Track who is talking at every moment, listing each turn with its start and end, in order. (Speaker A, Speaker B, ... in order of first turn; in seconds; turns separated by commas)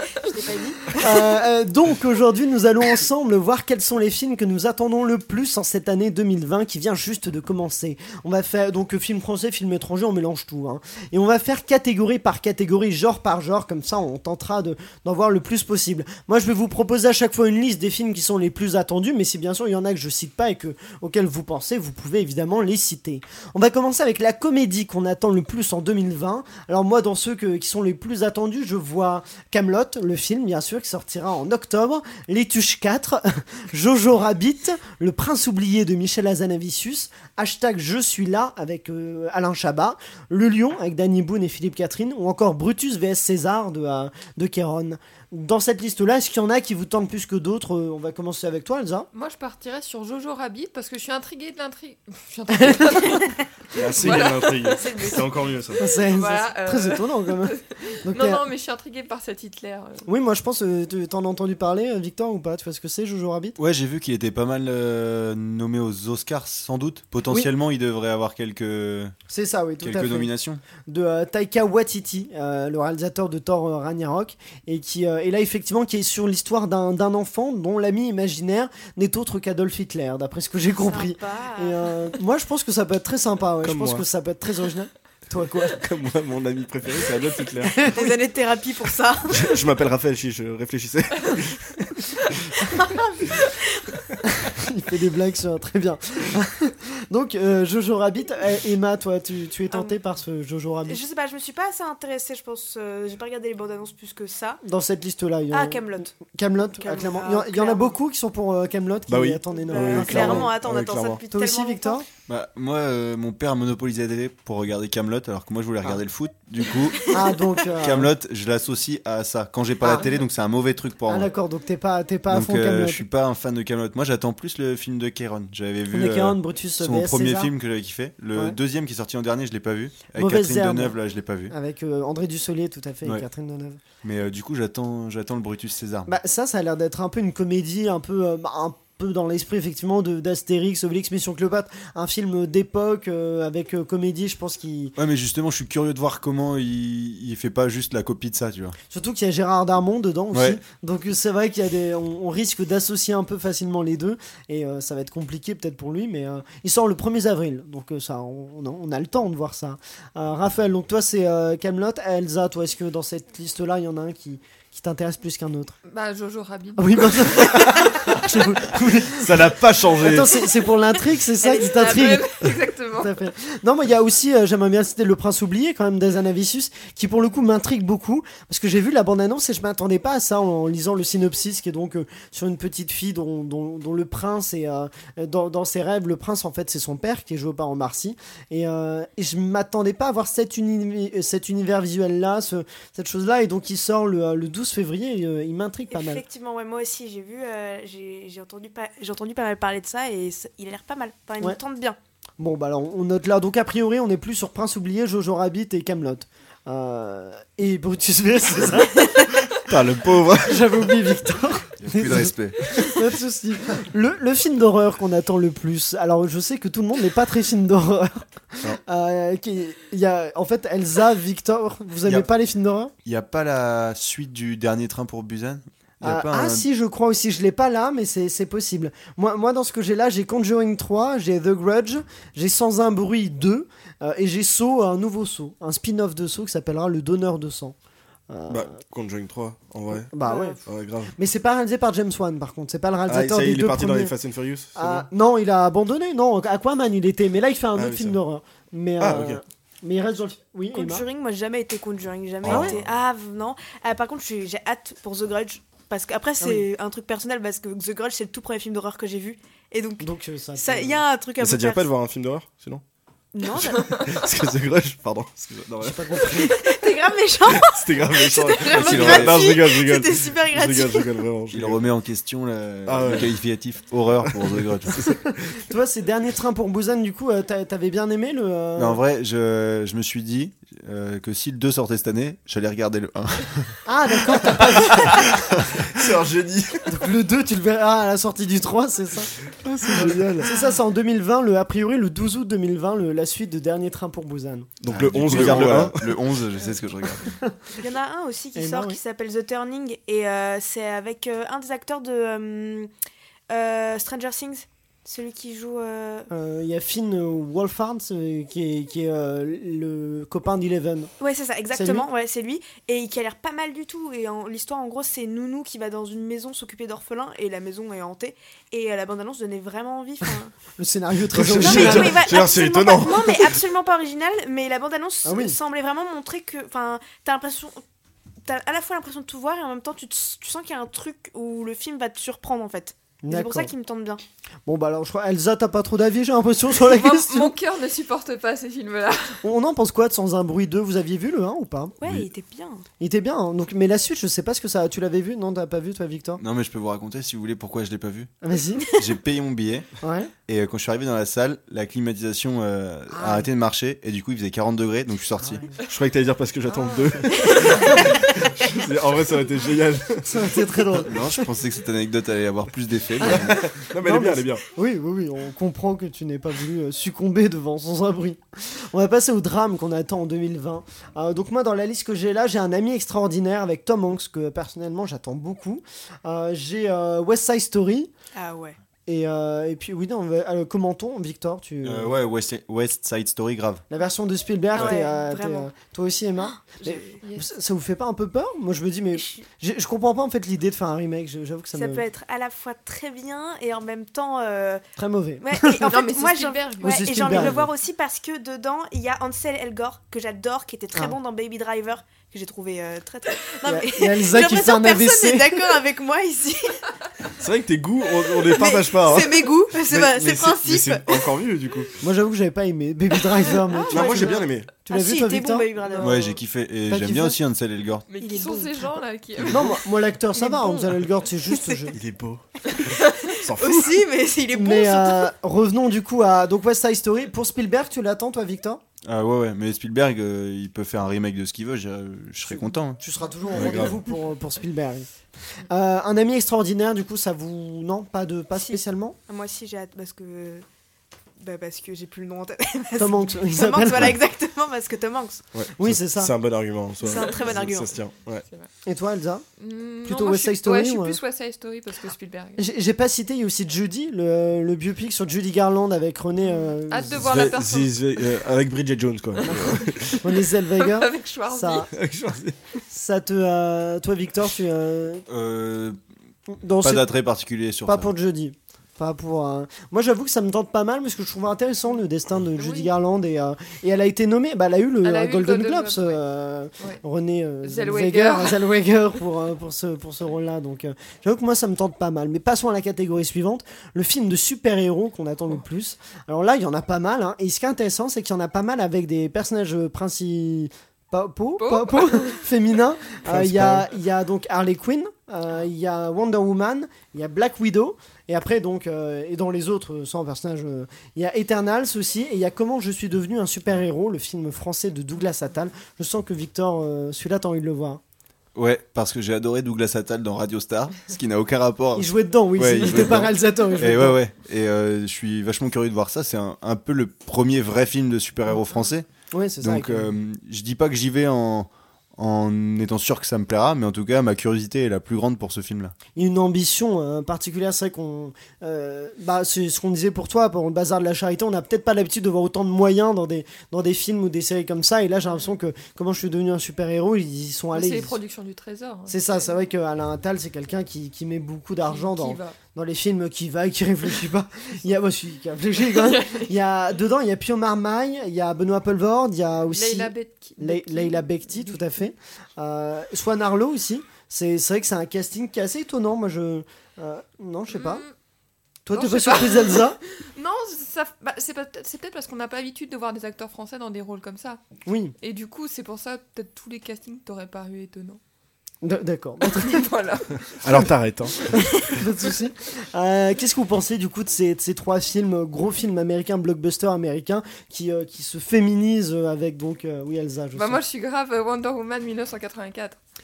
Speaker A: 0.2-0.9, Speaker B: 0.9-49.1, Speaker C: 49.1-53.4, Speaker B: 52.5-53.1, Speaker D: 53.7-55.8, Speaker C: 53.9-55.2, Speaker A: 54.8-55.2, Speaker B: 55.8-58.4, Speaker C: 56.1-60.0, Speaker B: 60.0-63.6, Speaker E: 63.6-69.1, Speaker B: 69.3-70.3, Speaker E: 69.8-70.6, Speaker B: 70.8-85.8, Speaker A: 80.7-82.0, Speaker D: 83.6-84.0, Speaker D: 85.8-87.9, Speaker A: 87.9-89.4, Speaker D: 89.3-91.8, Speaker A: 92.7-93.9, Speaker B: 94.3-101.0, Speaker A: 100.8-104.6, Speaker B: 104.6-110.5, Speaker A: 105.5-106.1, Speaker A: 106.8-107.9, Speaker D: 109.1-111.2, Speaker A: 109.7-112.0, Speaker B: 111.3-112.1, Speaker E: 112.3-117.2, Speaker B: 117.1-118.1, Speaker E: 117.8-121.3, Speaker B: 119.8-120.2, Speaker B: 121.1-123.0, Speaker E: 122.3-131.5, Speaker B: 125.9-127.5, Speaker B: 130.1-130.9, Speaker B: 131.5-133.8, Speaker E: 134.0-136.1, Speaker B: 136.1-144.9, Speaker E: 144.9-148.8, Speaker B: 148.9-165.8, Speaker E: 150.3-150.6, Speaker C: 165.9-167.0, Speaker B: 166.8-169.4, Speaker D: 169.1-170.3, Speaker B: 170.0-196.2, Speaker C: 171.4-173.2, Speaker A: 195.9-202.0, Speaker B: 202.4-209.4, Speaker D: 209.7-210.7, Speaker B: 210.4-222.9, Speaker E: 211.8-212.9, Speaker E: 223.0-226.7, Speaker B: 226.0-237.8, Speaker B: 238.3-238.7, Speaker D: 238.5-240.1, Speaker B: 240.1-240.6, Speaker A: 240.2-240.6, Speaker D: 240.6-241.1, Speaker B: 241.2-244.1, Speaker D: 243.1-245.1, Speaker B: 244.8-251.0, Speaker D: 247.8-248.2, Speaker D: 249.0-249.4, Speaker A: 250.7-261.9, Speaker E: 252.4-252.7, Speaker D: 252.4-252.8, Speaker B: 260.0-261.0, Speaker D: 261.4-262.8, Speaker A: 263.3-264.1, Speaker D: 263.6-266.1, Speaker B: 265.8-266.6, Speaker A: 266.3-271.1, Speaker D: 267.5-271.8, Speaker E: 268.7-269.5, Speaker E: 271.5-275.0, Speaker D: 272.9-273.4, Speaker D: 274.3-275.3, Speaker B: 275.1-279.0, Speaker E: 278.8-283.8, Speaker B: 283.9-285.4, Speaker D: 284.9-285.2, Speaker D: 285.9-286.9, Speaker B: 286.9-294.7, Speaker D: 289.5-290.5, Speaker D: 294.8-296.2, Speaker E: 294.9-297.3, Speaker B: 297.2-297.5, Speaker A: 297.7-302.9, Speaker B: 298.5-299.0, Speaker A: 303.5-306.3, Speaker B: 306.3-311.1, Speaker A: 311.2-320.5, Speaker B: 311.7-312.0, Speaker B: 320.8-322.2, Speaker D: 321.3-323.5, Speaker A: 321.5-327.8, Speaker B: 325.2-325.6, Speaker A: 328.4-334.2, Speaker B: 333.2-333.7, Speaker B: 334.6-337.5, Speaker C: 336.8-339.4, Speaker B: 339.4-342.0, Speaker A: 342.0-342.8, Speaker B: 343.0-346.4, Speaker E: 346.4-348.3, Speaker B: 348.4-348.9, Speaker E: 348.9-349.9, Speaker B: 350.0-350.3, Speaker E: 350.5-355.7, Speaker B: 353.1-353.5, Speaker B: 355.4-355.7, Speaker D: 355.8-360.5, Speaker B: 360.3-361.3, Speaker E: 361.0-363.7, Speaker B: 363.2-378.1, Speaker D: 363.3-364.6, Speaker A: 378.3-378.8, Speaker B: 379.1-382.1, Speaker E: 381.8-383.8, Speaker B: 383.9-392.0, Speaker A: 384.7-385.7, Speaker A: 386.7-387.2, Speaker A: 389.1-389.4, Speaker A: 391.7-394.8, Speaker B: 395.0-395.9, Speaker A: 395.4-406.8, Speaker C: 395.8-397.5, Speaker B: 396.8-397.6, Speaker B: 403.6-405.8, Speaker D: 407.4-411.9, Speaker A: 408.5-411.3, Speaker B: 412.0-416.1, Speaker A: 413.7-416.4, Speaker D: 413.9-414.7, Speaker E: 416.0-418.0, Speaker B: 416.9-417.4, Speaker C: 418.1-419.7, Speaker A: 418.2-419.0, Speaker B: 419.5-422.0, Speaker A: 420.4-420.9, Speaker A: 421.5-421.8, Speaker D: 421.9-424.0, Speaker A: 422.8-425.3, Speaker B: 424.5-428.8, Speaker E: 429.0-433.0, Speaker B: 432.4-435.1, Speaker D: 433.5-433.9, Speaker B: 435.7-439.1, Speaker A: 438.5-440.6, Speaker A: 441.4-445.4, Speaker B: 443.0-444.2, Speaker D: 445.5-448.4, Speaker B: 445.8-446.3, Speaker A: 447.0-448.0, Speaker B: 448.8-449.4, Speaker C: 449.6-452.6, Speaker B: 450.0-451.2, Speaker B: 452.6-457.3, Speaker C: 456.4-458.3, Speaker D: 457.1-460.2, Speaker C: 459.4-460.1, Speaker B: 459.4-461.9, Speaker C: 460.7-461.9, Speaker D: 461.9-462.6, Speaker B: 462.9-465.2, Speaker E: 465.3-466.0, Speaker B: 466.5-467.1, Speaker E: 466.8-468.1, Speaker B: 467.9-508.0, Speaker C: 472.6-472.9, Speaker C: 475.0-476.2, Speaker C: 477.6-478.7, Speaker C: 491.6-492.4, Speaker D: 493.3-493.8, Speaker E: 508.5-519.0, Speaker B: 511.9-514.2, Speaker B: 519.3-520.1, Speaker E: 519.6-526.0, Speaker B: 526.1-538.2, Speaker C: 537.7-539.3, Speaker B: 539.1-558.0, Speaker C: 541.9-542.5, Speaker C: 546.0-546.5, Speaker C: 549.7-551.8, Speaker C: 557.7-558.1, Speaker B: 558.9-560.0, Speaker C: 558.9-564.6, Speaker B: 564.9-565.1, Speaker C: 565.2-568.2, Speaker B: 568.8-569.9, Speaker C: 569.4-570.6, Speaker D: 570.6-571.5, Speaker B: 571.5-580.8, Speaker C: 580.5-583.0